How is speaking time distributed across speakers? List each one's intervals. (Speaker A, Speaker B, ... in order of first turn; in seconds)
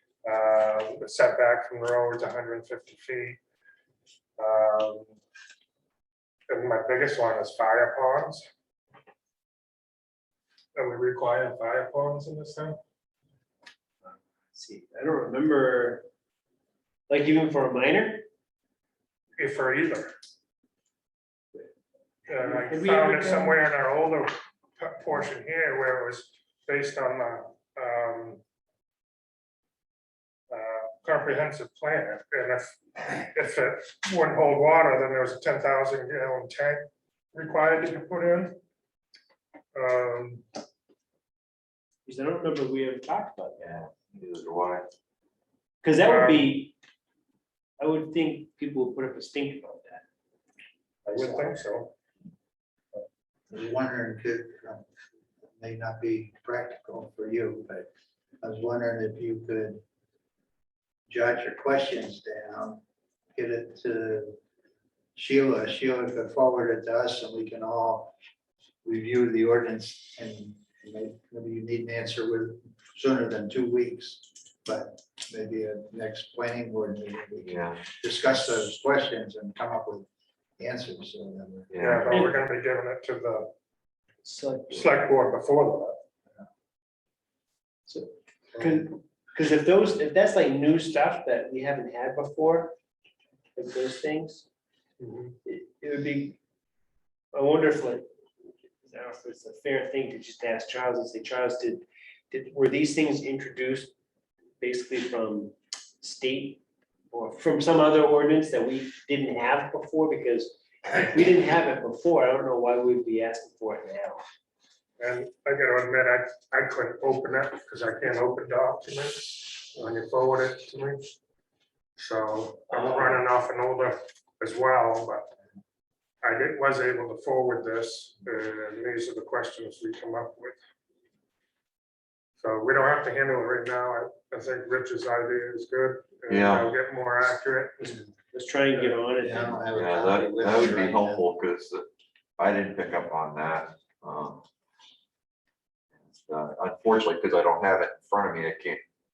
Speaker A: 0.2-3.4, 4.4-5.1, 6.5-8.5, 10.7-12.8, 19.4-20.1, 22.3-28.4, 30.5-38.5, 39.7-40.4, 46.0-46.5, 51.1-51.9, 81.8-83.5, 84.7-86.0, 95.0-95.3, 115.0-121.1, 122.0-125.3, 126.2-130.6, 132.4-138.0
Speaker B: 14.0-16.1, 17.1-18.2, 22.4-23.6, 42.0-43.5, 45.8-46.7, 47.8-50.0, 51.1-51.6, 82.0-82.4, 84.2-84.9, 87.9-92.8, 93.5-94.5, 95.4-96.4, 97.3-98.0, 98.8-103.9, 104.6-114.2, 122.7-123.2, 137.8-139.6
Speaker C: 43.6-44.9, 77.4-77.8, 81.7-82.2, 136.3-136.7, 139.7-141.8, 142.4-144.4, 146.1-148.8
Speaker D: 53.5-54.9, 55.6-57.9, 58.4-59.8, 61.1-62.8, 63.3-64.4, 65.1-68.1, 68.8-80.1, 80.6-81.7, 138.9-141.2